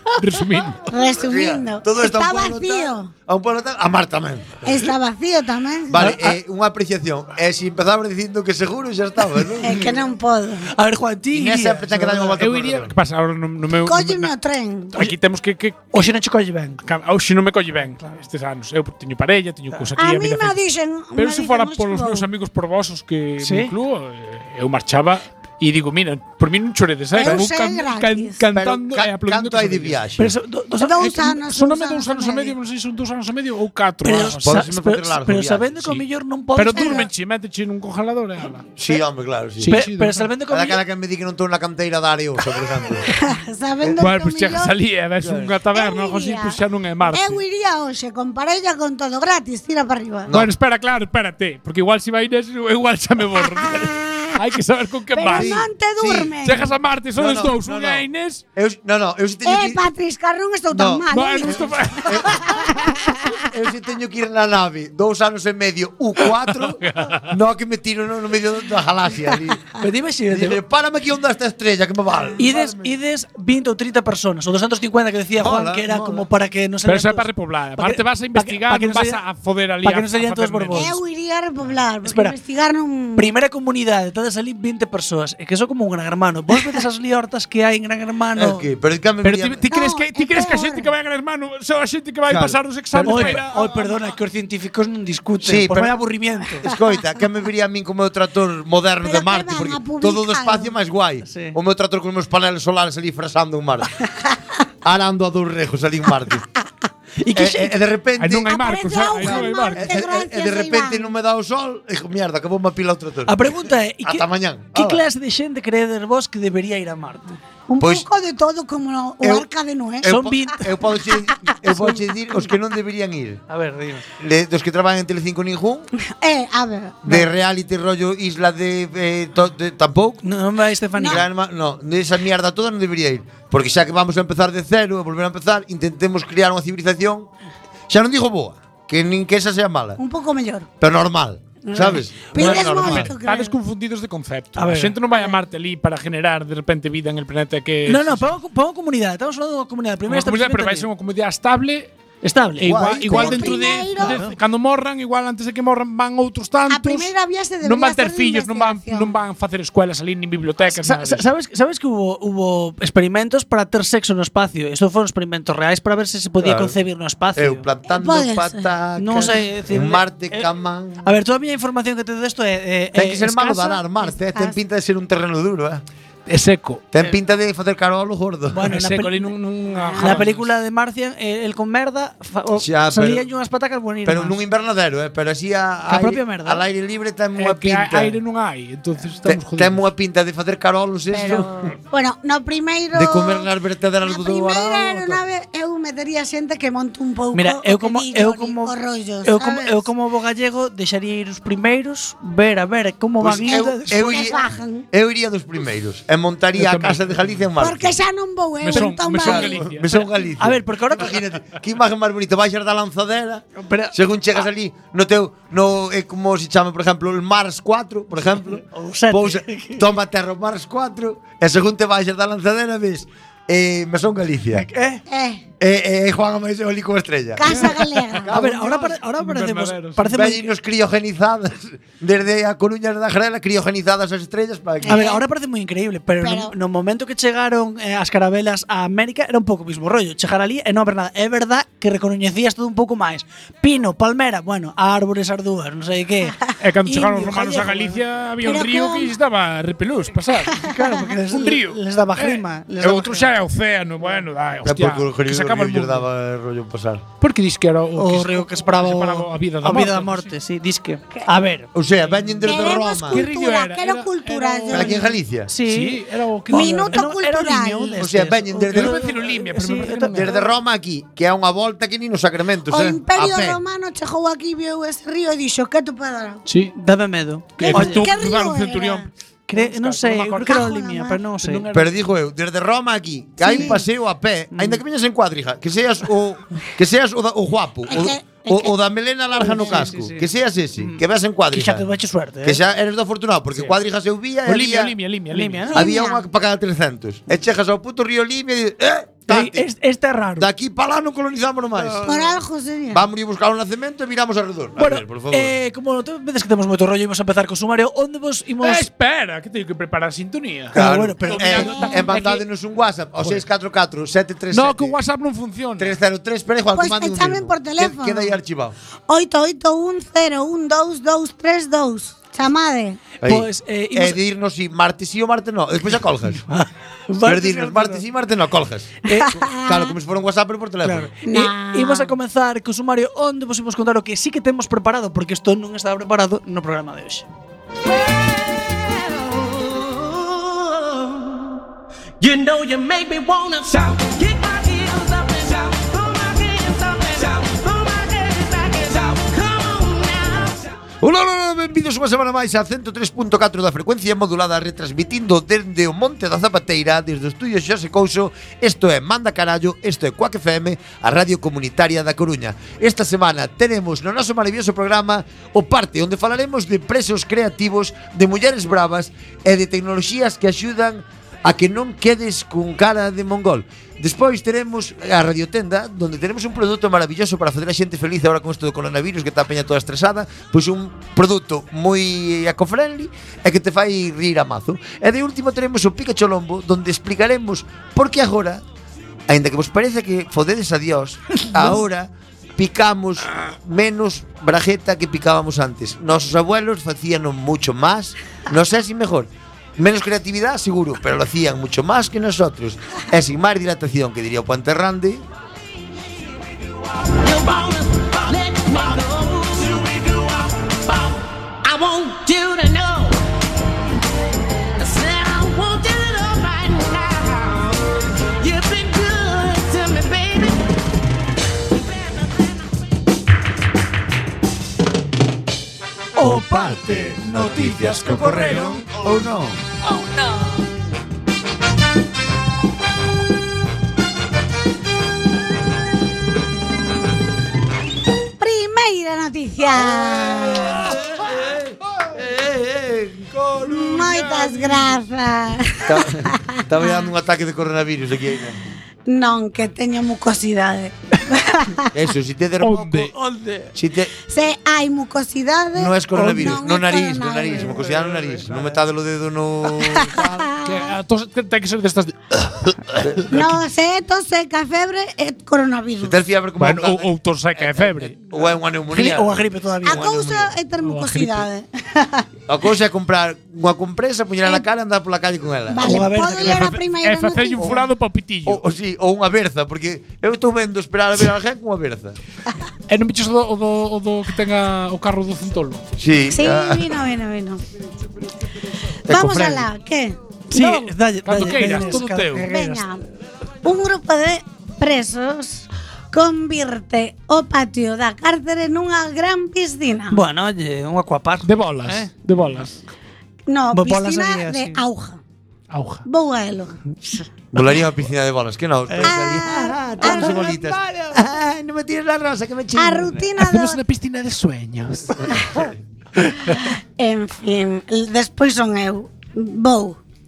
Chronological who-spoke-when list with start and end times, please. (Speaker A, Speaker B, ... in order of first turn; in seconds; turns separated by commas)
Speaker A: 0.2-0.8, Speaker B: 0.9-3.1, Speaker C: 1.2-4.6, Speaker B: 4.6-6.0, Speaker C: 5.9-9.8, Speaker D: 6.0-6.4, Speaker B: 9.6-10.7, Speaker D: 10.7-12.4, Speaker C: 11.3-12.9, Speaker A: 12.4-14.3, Speaker B: 13.9-15.0, Speaker A: 14.9-15.9, Speaker D: 15.9-16.8, Speaker A: 16.9-20.6, Speaker B: 20.0-22.3, Speaker A: 21.2-30.0, Speaker D: 23.4-23.7, Speaker B: 27.1-28.4, Speaker C: 28.5-30.3, Speaker D: 30.2-31.4, Speaker B: 30.8-32.5, Speaker A: 31.2-34.6, Speaker C: 34.0-35.8, Speaker D: 34.0-37.1, Speaker A: 36.5-38.7, Speaker B: 36.7-37.0, Speaker C: 38.8-39.8, Speaker A: 39.6-40.3, Speaker D: 39.6-40.8, Speaker C: 40.5-43.1, Speaker B: 43.1-44.7, Speaker A: 44.0-47.4, Speaker C: 45.2-45.6, Speaker B: 45.7-46.6, Speaker B: 47.1-50.3, Speaker C: 50.3-50.5, Speaker A: 50.3-55.6, Speaker B: 55.1-56.7, Speaker C: 55.3-56.4, Speaker A: 56.4-58.4, Speaker C: 57.2-59.8, Speaker B: 59.5-63.4, Speaker C: 60.7-62.7, Speaker A: 61.1-62.3, Speaker C: 63.3-69.7, Speaker A: 66.8-67.3, Speaker D: 69.8-70.6, Speaker C: 70.3-73.0, Speaker D: 72.4-77.3, Speaker C: 75.4-76.3, Speaker A: 76.8-80.9, Speaker D: 77.8-79.2, Speaker D: 79.8-81.0, Speaker B: 80.7-83.3, Speaker D: 82.0-82.4, Speaker D: 83.2-88.6, Speaker C: 88.4-89.6, Speaker A: 89.2-94.2, Speaker B: 89.7-90.9, Speaker C: 92.3-93.4, Speaker D: 93.0-96.7, Speaker C: 95.4-96.0, Speaker C: 96.6-103.9, Speaker B: 99.0-100.7, Speaker D: 101.3-101.6, Speaker C: 104.8-106.4, Speaker D: 107.2-107.7, Speaker C: 107.3-108.6, Speaker A: 108.2-109.9, Speaker B: 108.5-111.1, Speaker C: 109.2-115.0, Speaker D: 113.3-117.3, Speaker B: 117.7-120.2, Speaker C: 117.8-118.1, Speaker C: 120.0-123.4, Speaker D: 120.0-120.6, Speaker D: 123.5-124.1, Speaker C: 124.2-125.9, Speaker B: 126.1-127.2, Speaker C: 127.0-130.2, Speaker D: 130.2-131.2, Speaker B: 131.0-131.2, Speaker C: 131.1-137.3, Speaker C: 137.9-140.0, Speaker B: 140.0-140.7, Speaker C: 140.8-143.1, Speaker B: 141.6-143.6, Speaker D: 141.8-142.7, Speaker A: 142.7-148.3, Speaker D: 144.6-145.0, Speaker D: 147.9-150.9, Speaker A: 150.1-151.9, Speaker D: 152.2-152.8, Speaker A: 152.6-157.1, Speaker C: 152.6-153.6, Speaker B: 153.1-154.2, Speaker D: 154.0-154.3, Speaker B: 156.7-159.1, Speaker A: 157.6-161.2, Speaker D: 160.7-167.7, Speaker C: 166.4-166.8, Speaker C: 167.3-171.1, Speaker B: 167.9-168.7, Speaker D: 169.0-170.5, Speaker D: 171.0-173.8, Speaker C: 172.9-175.8, Speaker B: 173.7-174.6, Speaker A: 176.3-176.8, Speaker C: 176.9-178.8, Speaker D: 178.5-179.3, Speaker A: 178.7-180.5, Speaker D: 180.0-184.4, Speaker C: 182.6-183.3, Speaker C: 184.1-188.2, Speaker D: 185.9-186.7, Speaker A: 187.4-189.8, Speaker C: 189.3-191.7, Speaker B: 191.9-193.5, Speaker C: 192.9-195.2, Speaker B: 194.0-199.9, Speaker D: 197.3-204.4, Speaker C: 203.2-208.0, Speaker B: 203.5-204.9, Speaker A: 206.6-207.2, Speaker B: 207.6-209.6, Speaker A: 208.6-210.1, Speaker C: 208.7-224.7, Speaker D: 210.4-211.2, Speaker D: 213.6-213.9, Speaker D: 218.7-219.8, Speaker D: 224.5-225.0, Speaker B: 225.1-225.4, Speaker C: 225.6-228.9, Speaker B: 227.4-228.3, Speaker D: 228.3-230.5, Speaker A: 228.7-230.1, Speaker C: 230.1-235.1, Speaker B: 234.8-235.2, Speaker D: 234.9-248.0, Speaker B: 236.2-236.5, Speaker A: 246.6-250.7, Speaker B: 248.4-249.1, Speaker D: 250.6-253.3, Speaker A: 251.3-256.1, Speaker C: 254.6-257.0, Speaker A: 257.2-260.3, Speaker D: 257.9-261.7, Speaker C: 261.7-263.2, Speaker B: 262.4-265.1, Speaker A: 263.1-265.1, Speaker C: 264.7-265.5, Speaker D: 265.5-270.5, Speaker A: 265.6-267.1, Speaker B: 266.5-268.0, Speaker C: 268.0-269.1, Speaker A: 268.7-270.3, Speaker C: 270.1-273.6, Speaker B: 272.7-276.4, Speaker A: 276.5-276.7, Speaker D: 276.8-278.1, Speaker A: 277.6-280.8, Speaker B: 277.7-279.1, Speaker D: 279.5-281.6, Speaker B: 280.4-281.2, Speaker A: 281.4-282.0, Speaker C: 281.7-291.9, Speaker B: 283.4-283.8, Speaker D: 283.5-283.8, Speaker D: 284.5-284.8, Speaker B: 287.9-288.7, Speaker D: 289.4-291.0, Speaker D: 291.5-292.6, Speaker C: 292.4-294.9, Speaker A: 294.5-295.7, Speaker D: 295.3-295.9, Speaker B: 295.7-296.2, Speaker C: 295.7-299.7, Speaker D: 299.3-300.5, Speaker C: 300.4-302.3, Speaker D: 301.8-302.2, Speaker B: 302.0-303.0, Speaker C: 302.9-305.6, Speaker D: 304.8-308.9, Speaker A: 308.6-312.4, Speaker D: 310.7-312.2, Speaker C: 310.7-315.0, Speaker A: 314.5-315.9, Speaker C: 315.8-318.8, Speaker B: 316.8-318.4, Speaker B: 319.1-323.0, Speaker C: 323.2-326.4, Speaker D: 323.2-324.2, Speaker D: 326.4-328.0, Speaker C: 327.2-331.1, Speaker B: 329.1-329.9, Speaker D: 330.8-337.3, Speaker B: 331.2-332.1, Speaker E: 338.5-341.5, Speaker E: 342.2-350.7, Speaker C: 351.0-388.6, Speaker C: 389.3-405.2, Speaker E: 407.2-413.2, Speaker E: 414.8-420.7, Speaker E: 422.0-422.5, Speaker C: 426.2-429.6, Speaker D: 426.2-428.8, Speaker A: 427.4-428.9, Speaker B: 438.4-440.9, Speaker C: 439.8-444.1, Speaker B: 443.7-447.1, Speaker C: 445.9-448.6, Speaker B: 449.1-451.9, Speaker C: 451.9-453.1, Speaker A: 452.6-453.1, Speaker D: 453.1-453.7, Speaker C: 453.8-454.1, Speaker B: 454.3-457.8, Speaker C: 455.8-460.5, Speaker D: 456.2-456.6, Speaker D: 457.7-458.6, Speaker B: 459.9-460.9, Speaker A: 460.6-463.1, Speaker C: 463.0-463.4, Speaker B: 463.3-466.2, Speaker C: 466.0-470.5, Speaker A: 466.6-468.2, Speaker D: 468.9-470.1, Speaker B: 469.8-472.2, Speaker A: 470.8-471.5, Speaker C: 472.5-476.3, Speaker B: 475.7-477.8, Speaker D: 475.8-476.8, Speaker A: 476.4-478.6, Speaker C: 478.4-482.2, Speaker A: 482.9-485.8, Speaker C: 486.0-487.0, Speaker B: 486.3-487.6, Speaker C: 489.1-489.7, Speaker B: 489.1-490.9, Speaker D: 490.5-492.9, Speaker A: 491.2-492.5, Speaker B: 491.5-493.0, Speaker B: 493.6-500.2, Speaker D: 500.1-502.1, Speaker A: 501.4-502.8, Speaker B: 503.5-505.2, Speaker D: 503.7-504.8, Speaker A: 505.7-506.0, Speaker B: 506.1-507.2, Speaker C: 507.5-513.2, Speaker D: 508.9-509.5, Speaker B: 509.0-510.5, Speaker D: 510.0-511.2, Speaker B: 512.8-513.8, Speaker A: 513.4-515.3, Speaker B: 516.6-520.0